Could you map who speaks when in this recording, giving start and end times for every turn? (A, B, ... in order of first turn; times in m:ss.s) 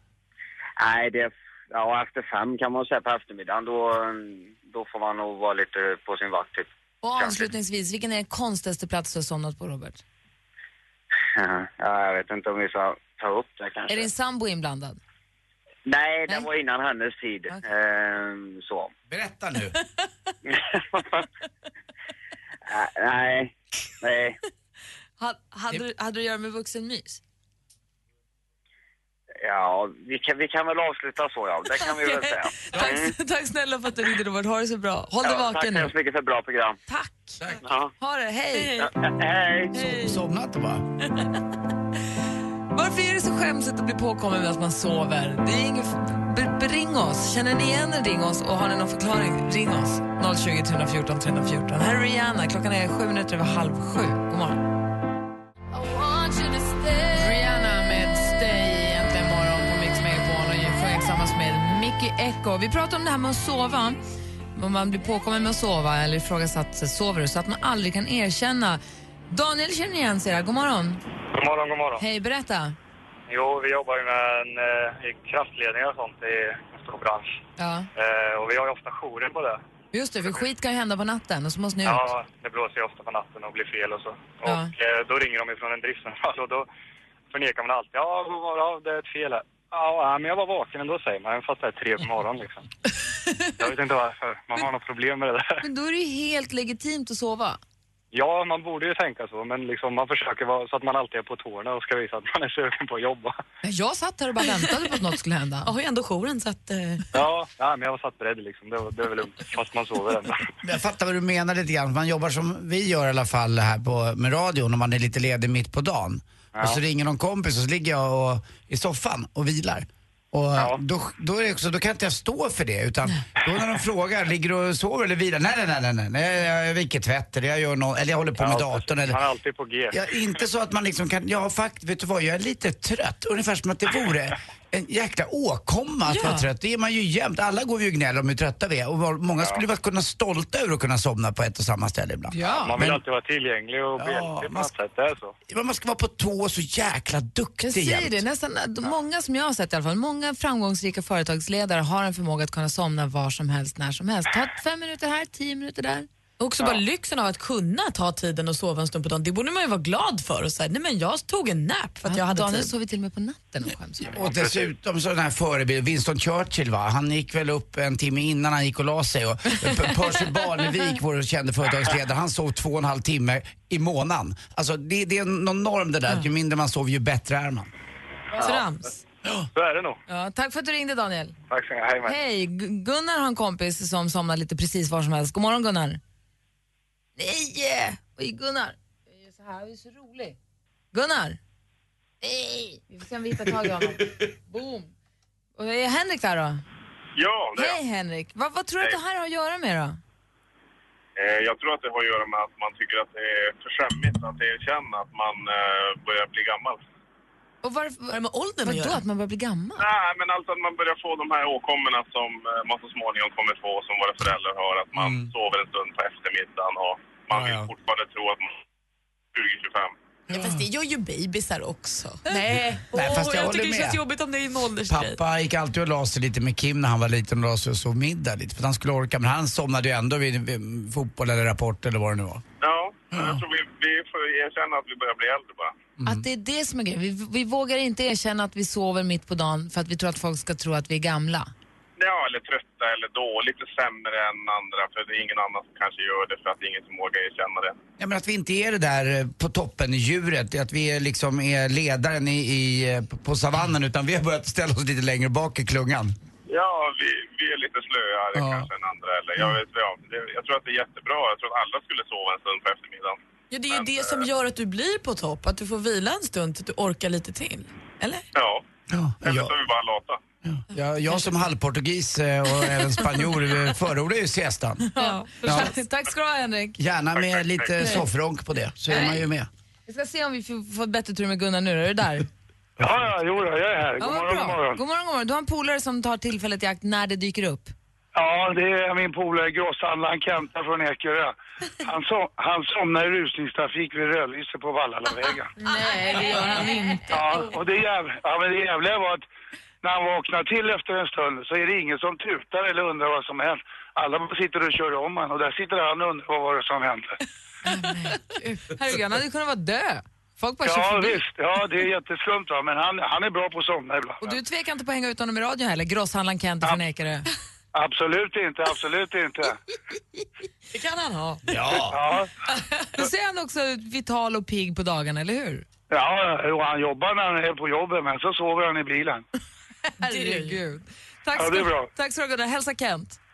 0:00.8-0:07.4 A
0:07.0-0:10.0 B
0:11.3-0:14.1 A
0:13.9-0:15.0 B
0:15.8-0:18.9 A
0:19.1-0:19.8 C
0:20.4-0:21.2 A
0:22.6-0:24.4 A
0:25.2-0:27.2 B
0:29.4-0:33.1 A
0:32.2-0:35.9 B
0:35.2-0:36.8 A
0:36.9-0:37.4 B
0:37.6-0:37.9 A
0:38.0-0:38.8 B
0:38.5-0:38.9 D
0:38.8-0:39.7 A
0:39.7-0:40.2 B
0:39.7-0:40.8 C
0:42.7-0:54.6 B
0:56.0-0:57.0 D
0:57.1-1:04.0 B
1:04.5-1:11.0 B
1:11.4-1:12.0 E
1:12.0-1:12.8 B
1:13.3-1:17.3 E
1:17.6-1:17.9 B
1:18.0-1:19.6 E
1:19.9-1:22.1 B
1:21.8-1:26.7 E
1:24.4-1:24.7 B
1:27.3-1:32.6 E
1:33.6-1:35.6 E
1:35.6-1:37.6 B
1:38.1-1:43.4 E
1:43.6-1:45.7 B
1:45.6-1:47.0 D
1:47.1-1:50.4 E
1:50.6-2:09.2 C
1:56.6-1:56.8 E
2:00.5-2:00.8 E
2:08.4-2:10.0 E
2:09.9-2:23.0 C
2:16.1-2:16.4 D
2:19.4-2:19.6 E
2:22.3-2:22.8 B
2:22.5-2:25.3 E
2:24.0-2:24.7 C
2:25.5-2:28.2 C
2:27.6-2:36.1 B
2:36.4-2:42.7 D
2:42.0-2:44.2 B
2:44.1-2:44.7 E
2:44.1-2:57.7 C
2:58.4-2:59.0 D
2:59.5-3:00.0 E
3:00.1-3:01.4 B
3:01.5-3:02.2 E
3:02.0-3:06.0 B
3:07.2-3:10.4 B
3:10.9-3:11.4 B
3:12.2-3:14.9 B
3:15.6-3:16.6 B
3:17.2-3:17.8 F
3:17.6-3:20.0 B
3:21.2-3:26.8 F
3:27.6-3:29.9 B
3:28.1-3:29.0 D
3:29.8-3:38.6 F
3:35.0-3:35.3 C
3:37.3-3:37.7 C
3:39.3-3:39.9 F
3:40.3-3:40.6 C
3:40.3-3:45.2 D
3:42.5-3:44.0 C
3:44.9-3:52.4 C
3:52.6-3:55.8 F
3:53.1-3:53.4 C
3:56.0-3:56.2 C
3:56.0-4:01.5 B
4:02.0-4:07.8 F
4:08.0-4:16.1 C
4:16.5-4:23.2 F
4:18.3-4:18.7 C
4:23.5-4:28.2 D
4:23.7-4:24.3 F
4:28.3-4:28.6 F
4:28.9-4:29.6 C
4:29.2-4:30.2 F
4:30.4-4:34.8 C
4:34.9-4:36.8 B
4:35.0-4:35.6 D
4:35.4-4:35.7 C
4:36.8-4:39.5 C
4:37.1-4:37.7 F
4:37.8-4:38.0 B
4:38.9-4:39.2 B
4:39.9-4:42.3 B
4:42.8-4:44.8 G
4:44.0-4:47.7 B
4:48.1-4:55.5 G
4:55.6-4:57.4 B
4:55.6-4:57.0 D
4:57.1-4:59.2 G
4:59.8-5:07.1 G
5:07.6-5:11.2 B
5:10.6-5:14.4 G
5:14.2-5:17.3 B
5:17.7-5:19.6 G
5:20.7-5:21.4 D
5:21.5-5:22.0 C
5:21.8-5:22.3 G
5:22.8-5:25.6 B
5:25.9-5:29.2 G
5:30.0-5:33.2 B
5:30.1-5:30.6 D
5:31.4-5:31.9 G